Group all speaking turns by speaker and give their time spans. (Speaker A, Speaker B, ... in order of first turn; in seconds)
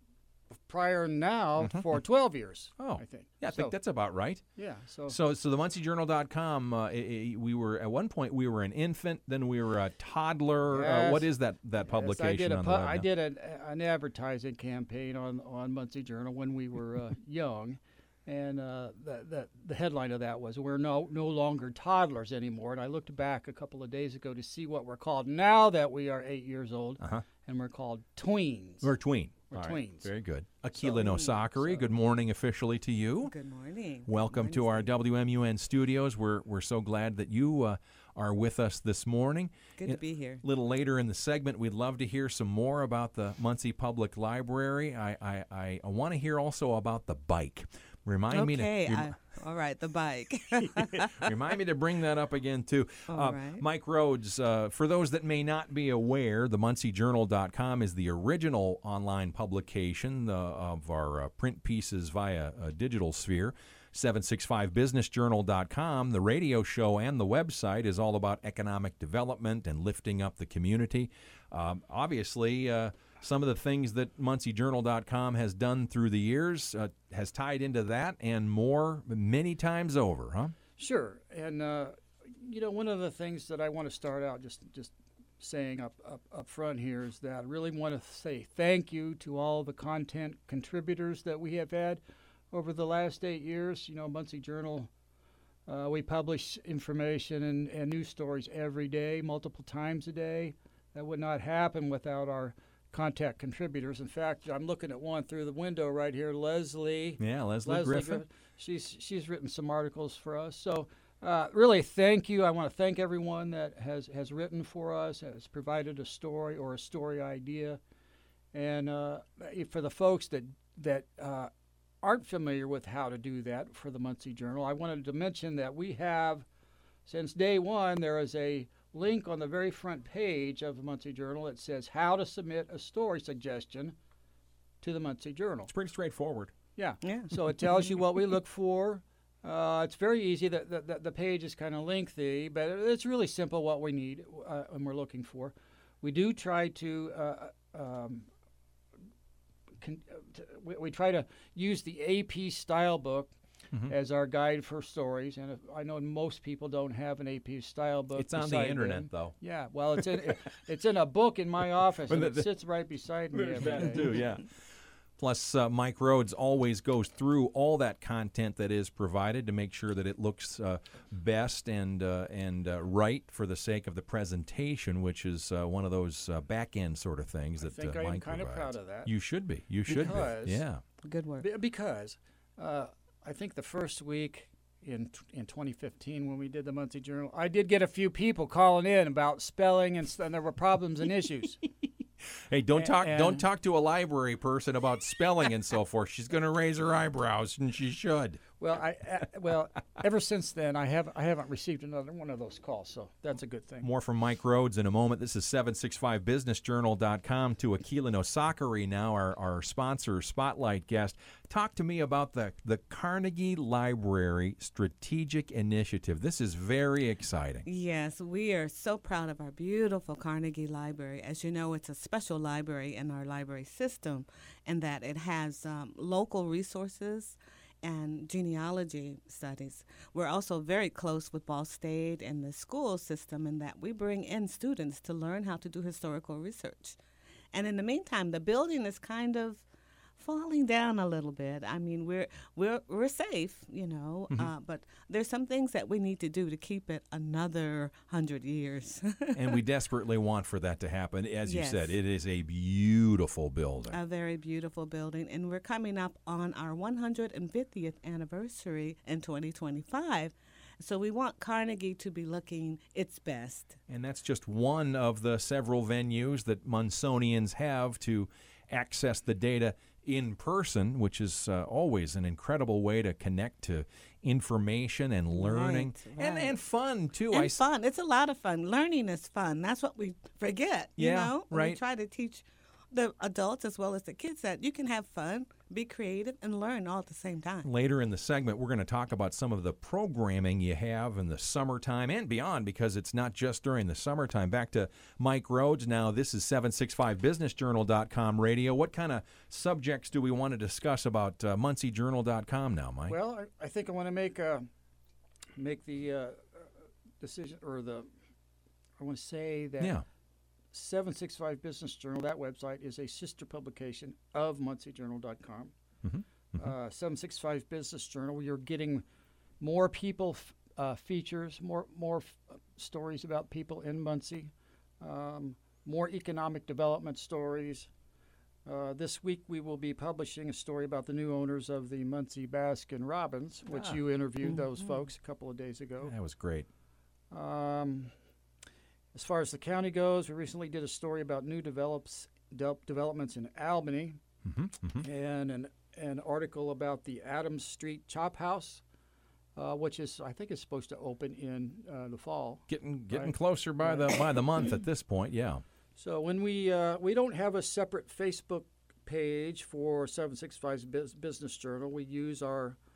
Speaker A: 0.5-3.8, 4.6-5.2, 10.7-11.3, 11.8-28.9, 29.5-30.1, 31.5-31.9, 80.8-94.9, 95.7-117.8, 118.5-121.5, 122.0-126.5, 127.0-133.9, 134.8-135.7, 136.8-148.3, 149.8-153.4, 153.9-164.1, 177.6-179.1, 179.8-180.6, 181.4-191.7, 192.7-193.5, 198.6-203.9, 303.1-304.7, 305.6-306.7, 307.2-308.1, 309.0-310.0, 310.7-315.7, 316.6-319.1, 319.6-327.9, 328.7-336.1, 337.3-338.1, 339.1-344.2, 345.0-348.8, 349.6-354.7, 356.0-362.8
Speaker B: 2.8-4.5, 5.1-13.1, 27.0-27.3, 28.8-33.3, 34.0-49.2, 51.1-80.5, 107.2-108.2, 135.7-136.5, 158.2-159.4, 162.1-162.5, 163.3-164.5, 165.2-180.8, 192.5-198.4, 203.8-217.7, 249.3-254.0, 263.9-277.6, 281.0-281.8, 287.6-303.2, 316.0-316.8, 333.7-334.0, 336.0-336.7, 344.4-345.1, 352.7-355.6
Speaker C: 30.8-31.5, 33.2-34.9, 39.8-40.4, 48.3-51.3, 53.1-53.6, 137.0-137.4, 181.0-181.5, 217.7-237.0, 237.5-239.7, 240.2-249.4, 251.5-252.0, 253.9-263.8, 275.3-276.6, 277.3-287.7, 334.4-335.1